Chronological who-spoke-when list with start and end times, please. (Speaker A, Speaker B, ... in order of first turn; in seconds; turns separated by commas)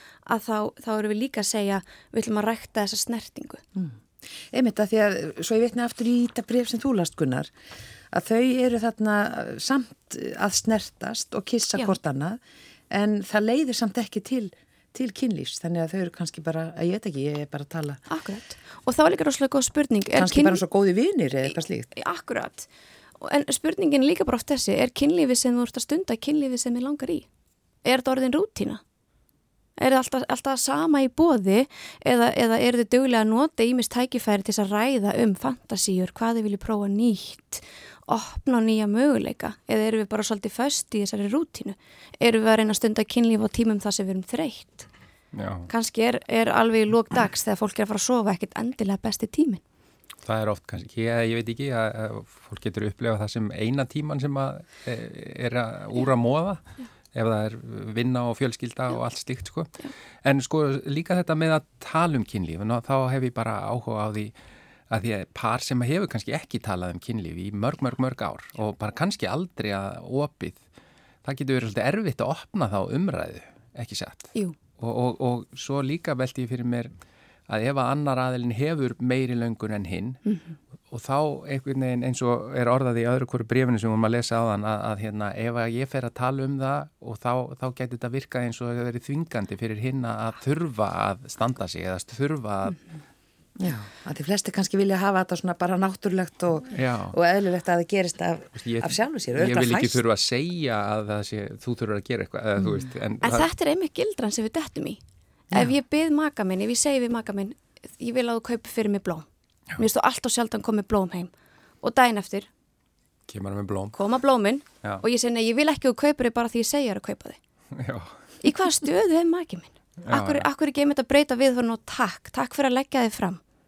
Speaker A: 0.2-3.6, Speaker B: 3.8-7.5, Speaker B: 8.1-12.4, Speaker B: 12.9-18.0, Speaker A: 18.1-20.6, Speaker B: 20.1-21.9, Speaker A: 21.4-22.7, Speaker A: 23.2-27.3, Speaker A: 27.8-28.8, Speaker A: 29.8-44.9, Speaker C: 45.3-45.7, Speaker A: 45.7-49.6, Speaker C: 50.2-56.6, Speaker C: 57.1-64.3, Speaker C: 64.9-70.6, Speaker C: 71.2-76.9, Speaker C: 77.5-80.2, Speaker A: 80.2-80.6, Speaker C: 80.9-92.8, Speaker B: 93.6-100.0, Speaker C: 96.7-97.1, Speaker C: 98.6-103.5, Speaker A: 103.2-105.0, Speaker A: 105.5-112.5, Speaker C: 113.3-113.9, Speaker A: 113.9-117.4, Speaker C: 117.8-118.1, Speaker A: 118.4-123.4, Speaker C: 120.0-120.5